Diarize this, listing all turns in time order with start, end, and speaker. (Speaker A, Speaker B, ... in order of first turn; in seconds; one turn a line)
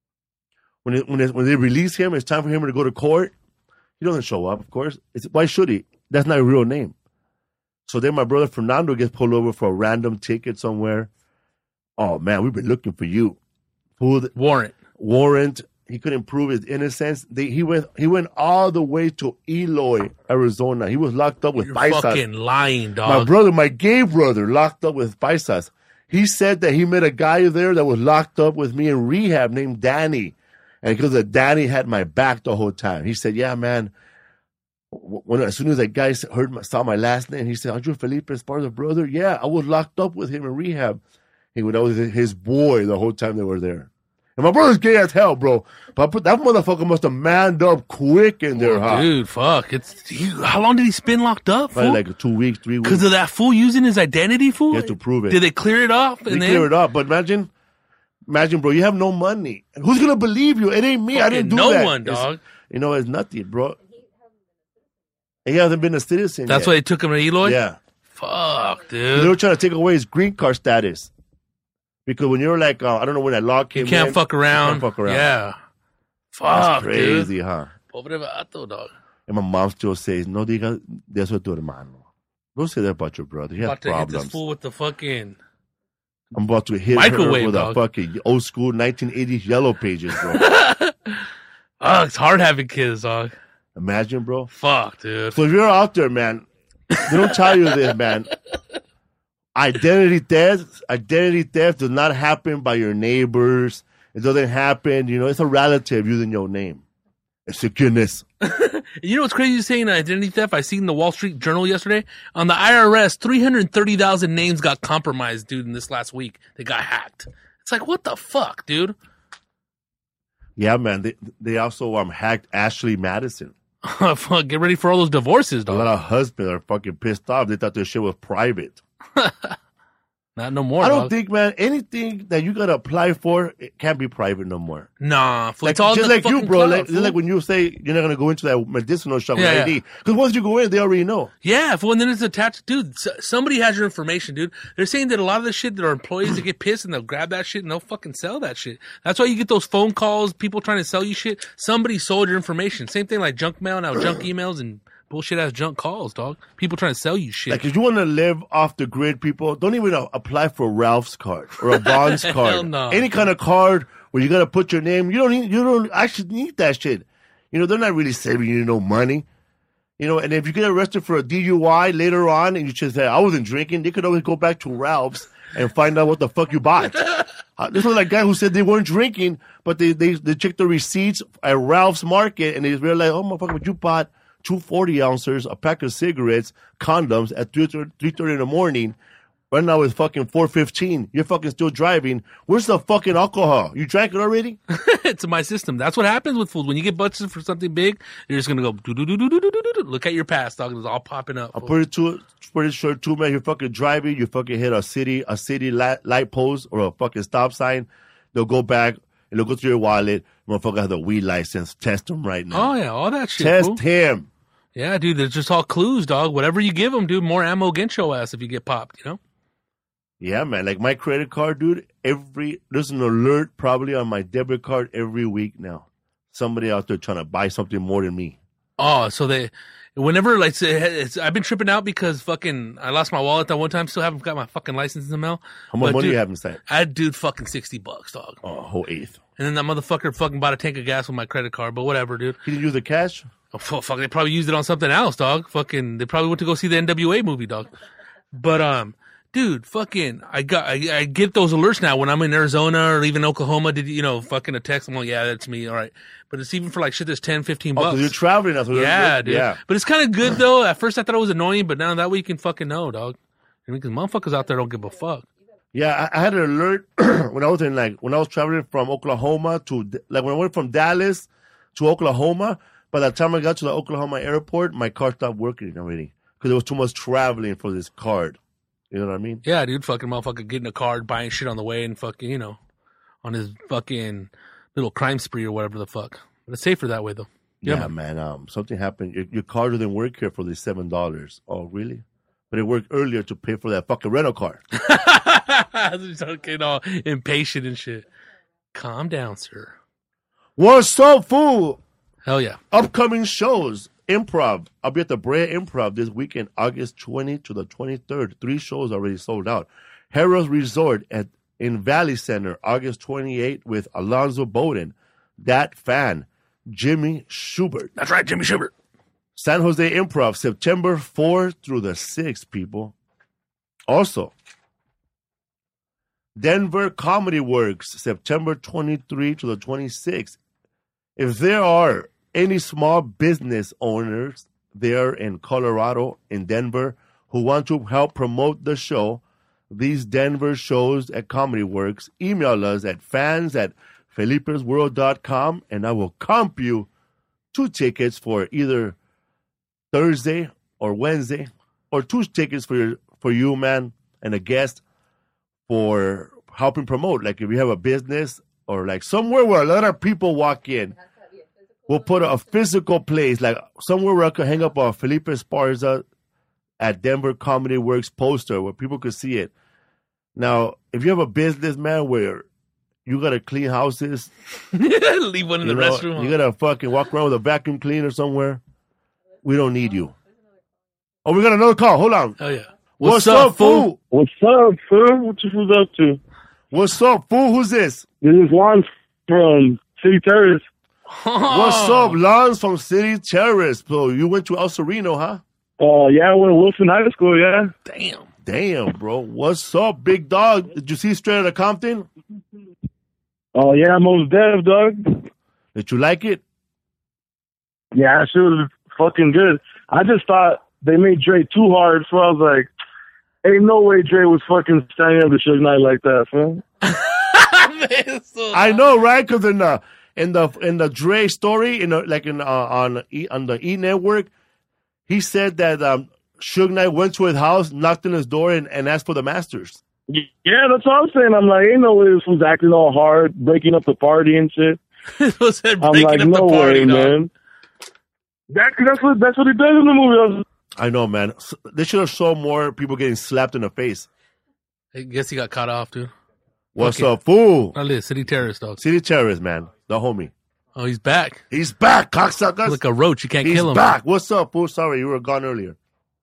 Speaker A: 0.8-3.3
Speaker A: 4.0-7.0
Speaker A: 7.9-11.1
Speaker A: 12.0-13.4
Speaker A: 14.0-14.3
Speaker B: 14.3-14.8
Speaker A: 15.0-22.2
Speaker B: 21.6-23.3
Speaker A: 23.0-33.9
Speaker A: 34.9-41.0
Speaker A: 41.5-49.1
Speaker B: 48.6-52.0
Speaker A: 51.7-53.1
Speaker B: 52.8-56.7
Speaker A: 54.7-55.4
Speaker A: 56.3-57.5
Speaker A: 58.3-63.8
Speaker B: 61.1-62.4
Speaker A: 65.5-66.7
Speaker B: 66.5-67.6
Speaker A: 67.4-67.8
Speaker B: 68.2-69.4
Speaker A: 69.1-71.1
Speaker A: 72.1-75.3
Speaker B: 73.8-75.6
Speaker B: 76.3-77.3
Speaker A: 76.5-77.7
Speaker B: 77.9-78.9
Speaker A: 79.3-82.0
Speaker A: 82.6-84.4
Speaker B: 83.6-85.4
Speaker A: 86.3-90.4
Speaker B: 86.9-87.8
Speaker B: 90.3-91.2
Speaker B: 91.8-93.3
Speaker A: 93.8-94.5
Speaker B: 94.5-95.4
Speaker A: 95.3-96.5
Speaker B: 97.0-97.6
Speaker A: 97.0-98.3
Speaker A: 99.5-106.8
Speaker A: 107.5-108.2
Speaker B: 108.4-119.0
Speaker A: 120.6-123.5
Speaker B: 123.8-125.9
Speaker A: 125.7-128.8
Speaker B: 129.2-129.6
Speaker B: 130.4-131.1
Speaker A: 130.8-134.9
Speaker B: 135.0-137.2
Speaker A: 135.6-141.3
Speaker B: 139.4-139.8
Speaker B: 141.4-157.6
Speaker A: 157.5-169.3
Speaker B: 161.8-163.2
Speaker A: 170.0-189.0
Speaker A: 189.5-194.6
Speaker B: 194.7-201.7
Speaker A: 201.6-212.7
Speaker B: 212.5-213.8
Speaker A: 213.4-214.3
Speaker B: 214.8-219.2
Speaker A: 220.2-228.4
Speaker B: 228.8-238.4
Speaker A: 235.7-236.6
Speaker A: 238.4-239.2
Speaker B: 239.4-242.4
Speaker A: 242.4-243.3
Speaker B: 243.5-247.7
Speaker B: 248.3-258.1
Speaker A: 257.8-259.6
Speaker B: 258.7-265.3
Speaker A: 265.7-278.4
Speaker A: 278.9-279.4
Speaker B: 279.4-282.6
Speaker B: 283.2-287.9
Speaker A: 287.6-294.6
Speaker B: 294.8-298.1
Speaker B: 298.7-299.8
Speaker A: 300.6-301.8
Speaker B: 302.3-302.6
Speaker A: 302.7-317.9
Speaker B: 318.0-318.7
Speaker A: 319.4-322.9
Speaker A: 323.9-324.3
Speaker A: 326.4-330.4
Speaker A: 331.2-346.9
Speaker A: 347.5-349.0
Speaker A: 349.9-354.8
Speaker A: 355.7-360.9
Speaker A: 361.9-366.0
Speaker A: 366.8-369.5
Speaker A: 370.4-372.5
Speaker A: 373.1-374.3
Speaker B: 374.7-376.4
Speaker A: 375.6-378.6
Speaker A: 379.4-380.1
Speaker A: 381.2-382.4
Speaker B: 382.4-383.9
Speaker A: 383.0-384.0
Speaker C: 384.1-386.2
Speaker A: 386.7-388.1
Speaker C: 388.2-390.6
Speaker B: 391.1-392.2
Speaker A: 391.5-395.4
Speaker C: 395.8-397.7
Speaker B: 397.9-398.3
Speaker A: 398.4-402.1
Speaker C: 403.5-405.3
Speaker A: 405.8-406.4
Speaker C: 407.9-412.7
Speaker C: 413.4-416.6
Speaker B: 416.8-418.8
Speaker A: 418.5-424.3
Speaker A: 425.1-429.8
Speaker C: 430.1-434.8
Speaker B: 435.2-437.2
Speaker C: 435.8-437.3
Speaker C: 438.5-440.4
Speaker A: 440.8-444.1
Speaker B: 444.9-446.1
Speaker A: 446.8-447.8
Speaker B: 446.8-447.1
Speaker B: 447.7-448.8
Speaker A: 448.8-450.3
Speaker B: 450.8-451.4
Speaker A: 451.5-452.8
Speaker B: 452.7-453.9
Speaker A: 453.4-455.8